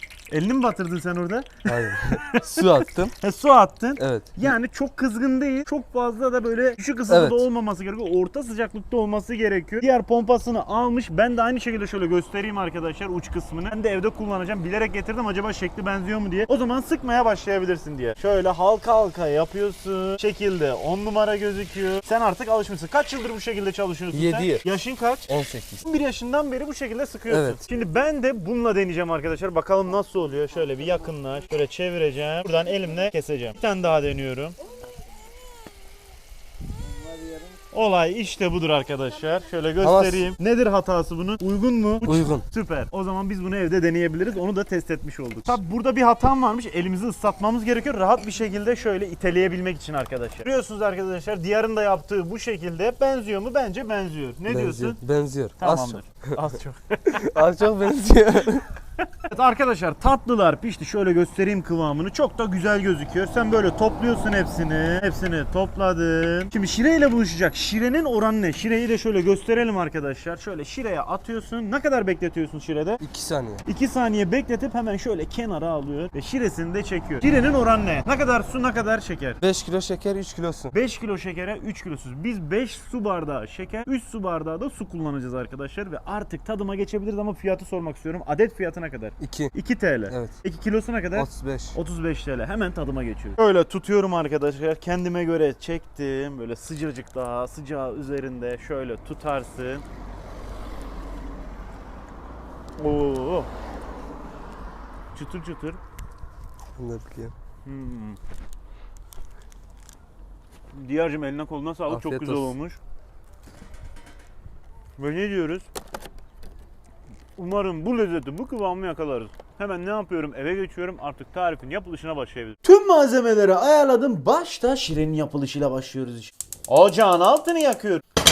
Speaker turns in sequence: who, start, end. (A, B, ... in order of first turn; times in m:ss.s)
0:00.3-0:25.3 A
0:01.7-0:03.1 B
0:04.0-0:04.5 B
0:07.1-0:07.4 B
0:24.1-0:24.6 B
0:25.3-0:25.8 B
0:25.8-0:34.6 A
0:27.3-0:27.6 B
0:37.7-0:55.0 A
0:39.8-0:40.3 B
0:42.0-0:42.4 B
0:54.5-0:56.4 B
0:55.6-0:57.2 A
0:57.1-0:58.6 B
0:59.1-1:13.0 A
1:13.0-1:13.6 B
1:13.6-1:19.4 A
1:19.4-1:20.7 B
1:20.7-1:39.8 A
1:29.2-1:29.5 B
1:30.1-1:30.4 B
1:31.1-1:31.8 B
1:42.8-1:43.5 A
1:45.1-1:45.8 A
1:46.8-1:47.3 B
1:47.6-1:48.2 A
1:50.7-1:52.8 A
1:51.9-1:52.5 B
1:55.0-1:55.7 A
1:57.4-2:08.0 A